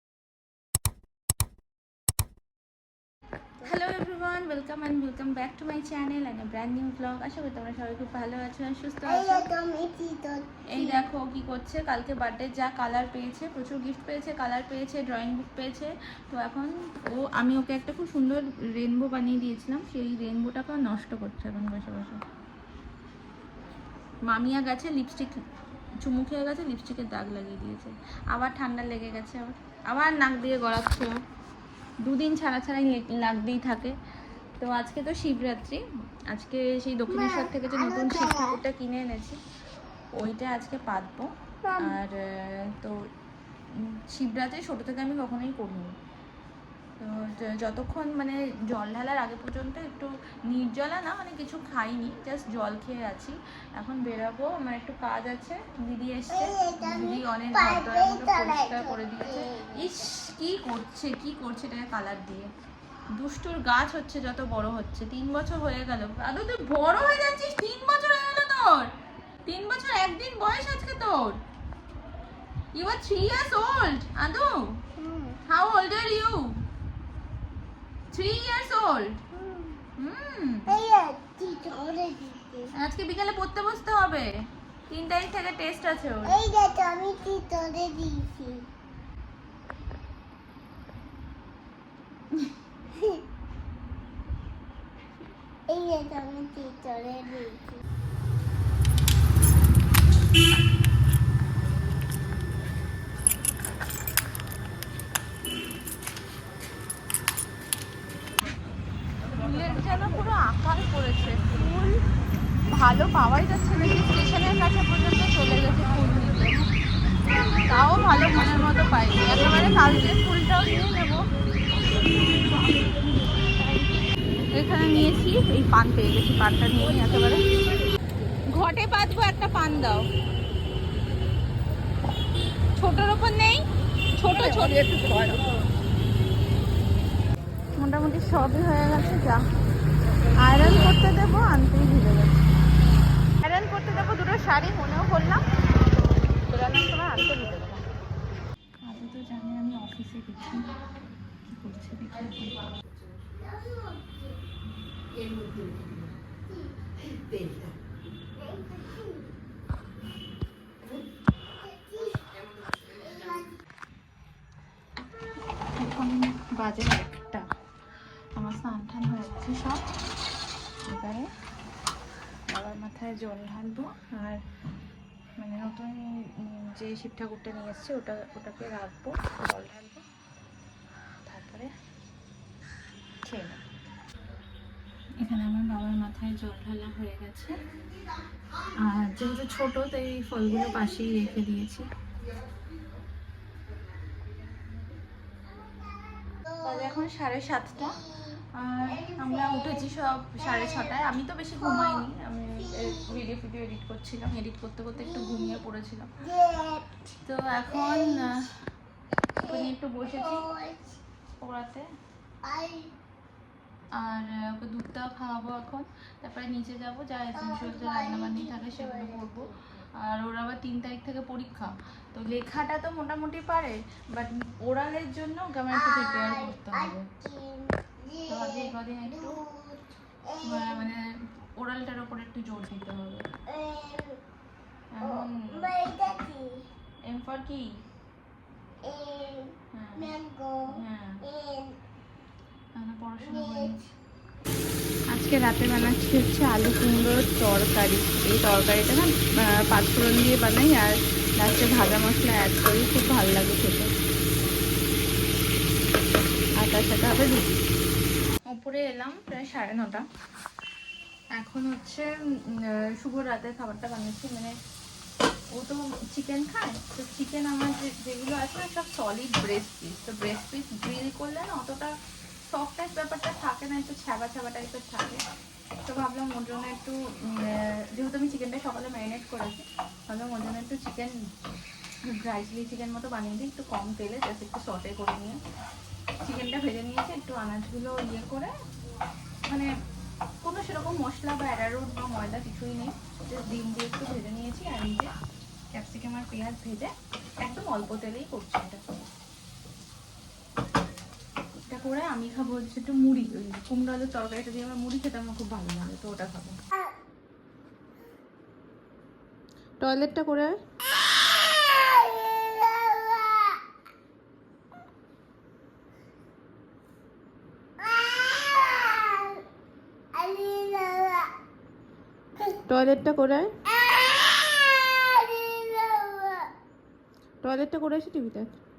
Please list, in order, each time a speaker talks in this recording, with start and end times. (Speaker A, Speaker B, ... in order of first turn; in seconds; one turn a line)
Speaker A: 3.6-9.5
Speaker B: 9.1-11.1
Speaker A: 10.7-22.2
Speaker A: 24.3-25.4
Speaker A: 26.0-31.2
Speaker A: 32.0-34.0
Speaker A: 34.6-39.4
Speaker B: 37.1-38.6
Speaker A: 40.1-43.0
Speaker B: 41.6-42.0
Speaker A: 43.7-46.0
Speaker A: 47.0-62.5
Speaker B: 56.3-60.1
Speaker A: 63.2-68.9
Speaker A: 69.5-71.4
Speaker A: 72.7-74.7
Speaker B: 75.0-75.4
Speaker A: 75.5-76.6
Speaker A: 78.1-79.2
Speaker B: 79.3-79.8
Speaker A: 80.0-80.8
Speaker B: 80.7-82.7
Speaker A: 82.8-84.3
Speaker A: 84.9-86.4
Speaker B: 86.3-88.7
Speaker B: 92.9-93.2
Speaker B: 95.7-97.8
Speaker A: 109.3-112.0
Speaker A: 112.7-116.7
Speaker A: 117.7-121.3
Speaker A: 123.4-124.0
Speaker A: 124.5-127.5
Speaker A: 128.5-130.1
Speaker A: 132.8-133.7
Speaker A: 134.2-135.4
Speaker A: 137.8-139.4
Speaker A: 140.4-142.5
Speaker A: 143.4-145.4
Speaker A: 146.5-147.8
Speaker A: 148.8-150.8
Speaker A: 151.5-152.7
Speaker B: 153.2-154.4
Speaker B: 158.4-159.3
Speaker B: 161.5-163.6
Speaker A: 165.8-167.5
Speaker A: 168.4-169.8
Speaker A: 170.8-171.3
Speaker A: 172.5-174.4
Speaker A: 175.4-180.0
Speaker A: 181.3-181.7
Speaker A: 183.2-183.6
Speaker A: 185.2-187.6
Speaker A: 188.8-191.8
Speaker B: 195.7-197.1
Speaker A: 196.6-198.0
Speaker B: 197.8-201.0
Speaker A: 198.5-206.1
Speaker B: 201.6-203.2
Speaker B: 205.0-205.6
Speaker B: 206.2-207.0
Speaker A: 207.3-208.5
Speaker B: 207.7-208.5
Speaker B: 209.4-211.0
Speaker A: 209.4-210.5
Speaker A: 211.4-211.9
Speaker B: 212.4-212.9
Speaker A: 213.9-227.1
Speaker B: 217.3-219.5
Speaker B: 225.7-230.9
Speaker A: 228.3-229.4
Speaker A: 230.4-233.3
Speaker B: 233.5-234.2
Speaker A: 234.9-235.7
Speaker B: 235.0-236.6
Speaker A: 237.1-237.8
Speaker B: 238.8-241.8
Speaker A: 239.7-240.1
Speaker A: 240.7-241.2
Speaker A: 242.8-243.9
Speaker B: 243.2-243.8
Speaker A: 245.1-253.9
Speaker A: 256.6-257.6
Speaker A: 258.5-260.1
Speaker A: 261.4-264.6
Speaker A: 265.5-271.9
Speaker A: 272.5-275.2
Speaker A: 275.9-281.2
Speaker A: 282.1-285.4
Speaker A: 286.2-288.6
Speaker A: 290.4-295.1
Speaker A: 295.7-298.8
Speaker A: 301.7-306.6
Speaker A: 309.8-310.6
Speaker B: 311.4-313.6
Speaker B: 317.8-319.4
Speaker B: 320.1-321.3
Speaker A: 322.7-323.5
Speaker B: 323.6-326.5
Speaker A: 327.4-328.6